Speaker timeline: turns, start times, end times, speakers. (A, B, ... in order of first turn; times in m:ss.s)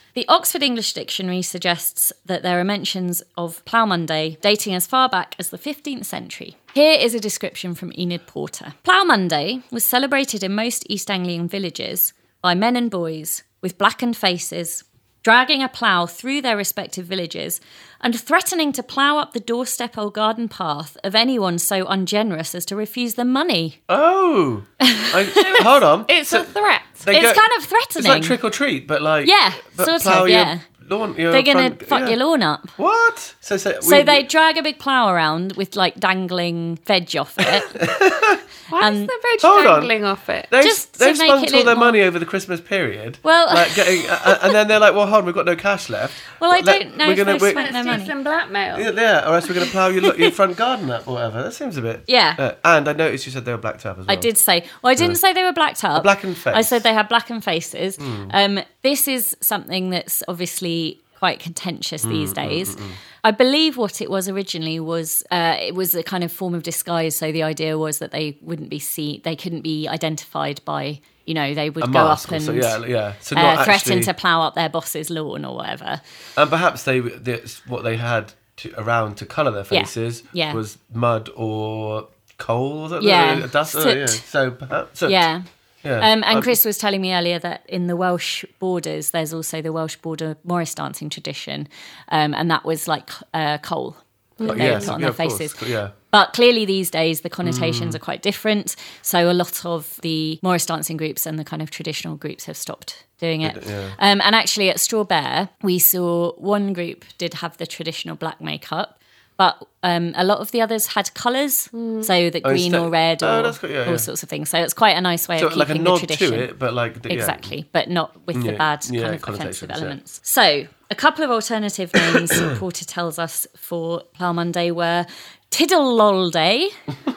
0:00.2-0:23.8 A
0:23.9-0:26.5 B
0:24.8-0:25.7 A
0:25.4-0:27.1 C
0:27.0-0:32.2 B
0:27.1-0:28.4 A
0:29.2-0:30.6 A
0:31.3-0:32.8 A
0:32.8-0:34.3 B
0:33.8-0:37.8 A
0:37.6-0:38.4 B
0:38.7-0:40.5 C
0:38.8-0:39.1 A
0:39.4-0:40.0 B
0:40.5-0:48.0 B
0:40.6-0:42.0 A
0:43.2-0:44.5 A
0:46.4-0:48.1 A
0:47.4-0:48.9 C
0:48.7-0:54.3 B
0:52.1-0:52.4 A
0:54.1-1:12.8 A
0:56.0-0:56.8 B
0:58.0-0:58.3 B
1:02.0-1:03.0 B
1:11.8-1:14.1 B
1:13.3-1:16.0 A
1:16.4-1:25.3 B
1:19.7-1:20.6 A
1:23.0-1:24.2 A
1:25.1-1:25.4 A
1:25.8-1:26.6 B
1:26.0-1:56.5 A
1:34.4-1:34.9 C
1:34.4-1:35.9 B
1:37.4-1:38.0 B
1:43.4-1:44.0 B
1:51.7-1:52.1 C
1:52.4-1:54.1 B
1:55.4-1:57.5 B
1:57.1-2:06.8 A
1:58.3-2:00.0 B
2:02.1-2:02.6 B